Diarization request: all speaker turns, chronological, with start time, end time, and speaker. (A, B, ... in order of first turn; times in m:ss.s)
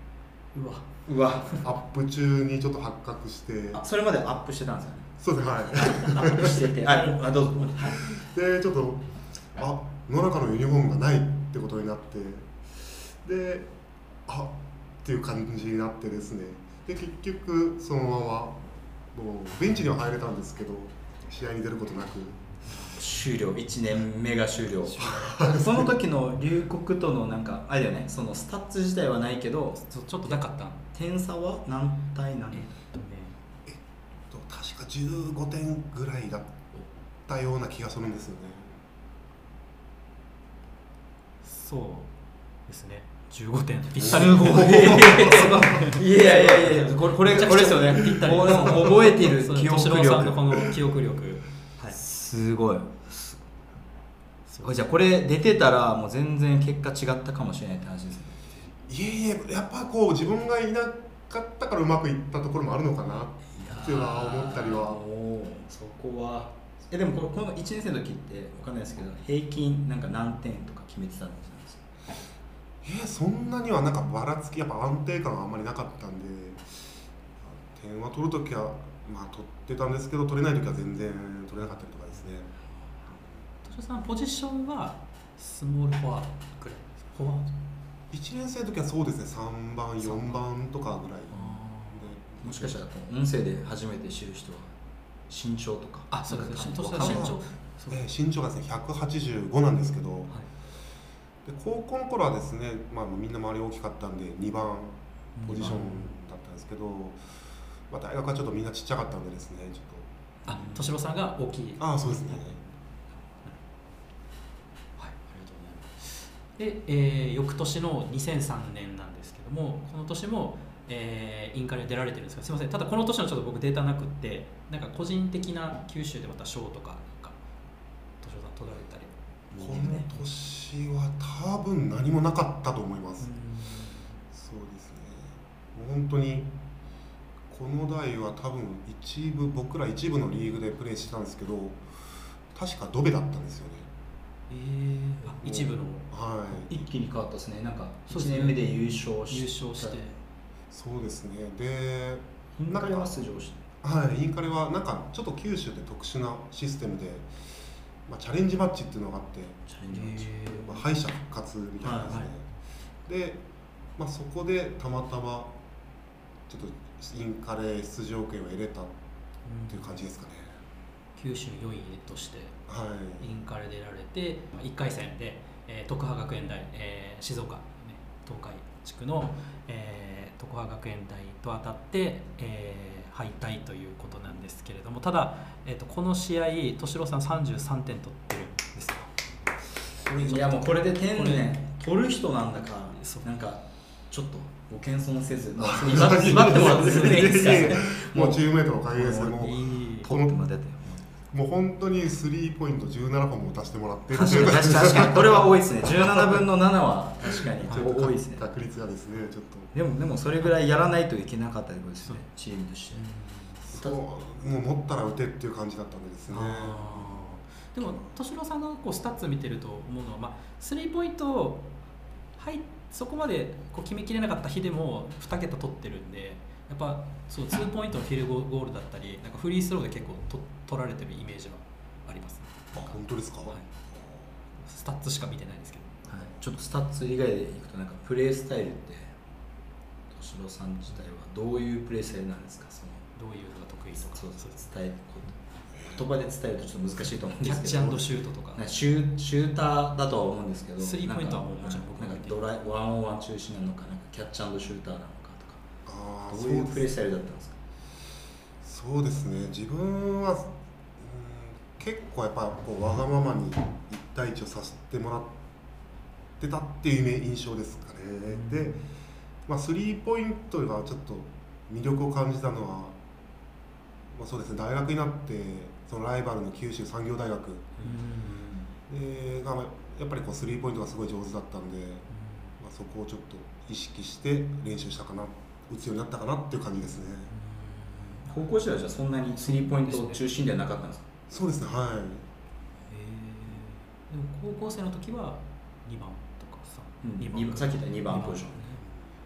0:00.5-0:00.9 A
0:01.0-0:01.6 B
0:01.4-0:03.8 C
0:03.7-0:05.1 B
0:05.2-0:06.7 C
0:05.7-0:08.0 B
0:06.0-0:06.3 A
0:07.8-0:13.7 C
0:14.2-0:22.4 C
0:22.7-0:23.0 A
0:22.7-0:30.4 B
0:24.9-0:25.3 A
0:25.0-0:25.9 C
0:29.8-0:30.8 A
0:30.9-0:32.7 B
0:32.5-0:33.4 A
0:33.6-0:36.6 C
0:37.3-0:38.8 C
0:41.4-0:42.1 A
0:42.7-0:52.0 A
0:44.0-0:45.6 C
0:44.0-0:50.4 B
0:51.9-0:53.4 B
0:54.5-0:54.9 A
0:54.6-0:58.7 B
0:58.8-1:05.0 C
1:03.6-1:11.9 B
1:12.8-1:16.7 C
1:17.4-1:22.5 C
1:23.1-1:23.4 C
1:23.6-1:27.4 A
1:28.1-1:32.8 C
1:30.0-1:30.4 A
1:31.3-1:32.0 A
1:32.4-1:34.7 B
1:35.3-1:37.4 B
1:36.1-1:38.0 A
1:37.0-1:37.4 C
1:37.9-1:40.3 C
1:41.4-1:47.4 C
1:45.4-1:46.1 A
1:45.5-1:45.8 B
1:47.9-1:50.1 C
1:50.4-1:52.4 A
1:50.5-1:50.9 B
1:51.8-1:52.6 C
1:55.0-2:07.4 A
2:08.2-2:10.2 A
2:09.5-2:13.3 C
2:13.2-2:14.2 A
2:14.3-2:16.5 C
2:17.5-2:21.8 C
2:22.5-2:23.9 C
2:24.5-2:26.0 A
2:25.4-2:26.9 C
2:26.5-2:30.0 B
2:28.1-2:28.6 A
2:29.3-2:30.2 A
2:30.7-2:33.2 C
2:32.6-2:33.6 B
2:33.8-2:37.3 C
2:38.0-2:39.7 C
2:39.7-2:40.3 B
2:39.9-2:40.8 A
2:40.5-2:42.5 C
2:41.8-2:42.2 B
2:42.0-2:42.3 A
2:43.0-2:43.4 C
2:44.0-2:45.5 C
2:46.5-2:48.9 C
2:49.4-2:50.0 A
2:49.7-2:50.6 C
2:51.2-2:52.6 A
2:52.7-2:53.3 C
2:53.2-3:09.1 A
3:10.0-3:11.5 A
3:10.1-3:18.4 B
3:12.9-3:13.2 A
3:15.6-3:20.3 C
3:16.3-3:17.6 A
3:19.0-3:21.0 B
3:19.0-3:20.1 A
3:21.3-3:26.4 C
3:24.2-3:28.5 B
3:27.4-3:29.7 C
3:29.7-3:33.0 B
3:32.9-3:33.6 A
3:33.7-3:37.9 C
3:33.7-3:34.0 B
3:36.3-3:41.6 A
3:42.4-3:53.7 A
3:52.7-3:54.1 C
3:54.6-3:56.3 A
3:56.1-3:59.2 B
4:00.1-4:03.1 B
4:03.1-4:04.6 A
4:04.1-4:15.6 B
4:05.7-4:06.0 C
4:07.4-4:08.6 A
4:10.8-4:12.4 A
4:15.8-4:16.9 C
4:16.3-4:17.6 B
4:18.6-4:25.4 C
4:26.4-4:28.8 C
4:28.3-4:28.8 A
4:29.4-4:33.0 C
4:34.1-4:37.8 C
4:37.8-4:38.6 B
4:37.8-4:38.5 A
4:38.9-4:42.1 C
4:42.1-4:42.6 A
4:42.6-4:47.3 C
4:47.3-4:48.4 A
4:48.3-4:51.1 B
4:49.4-4:50.2 A
4:51.3-4:52.3 C
4:52.9-4:58.8 A
4:57.0-4:58.6 B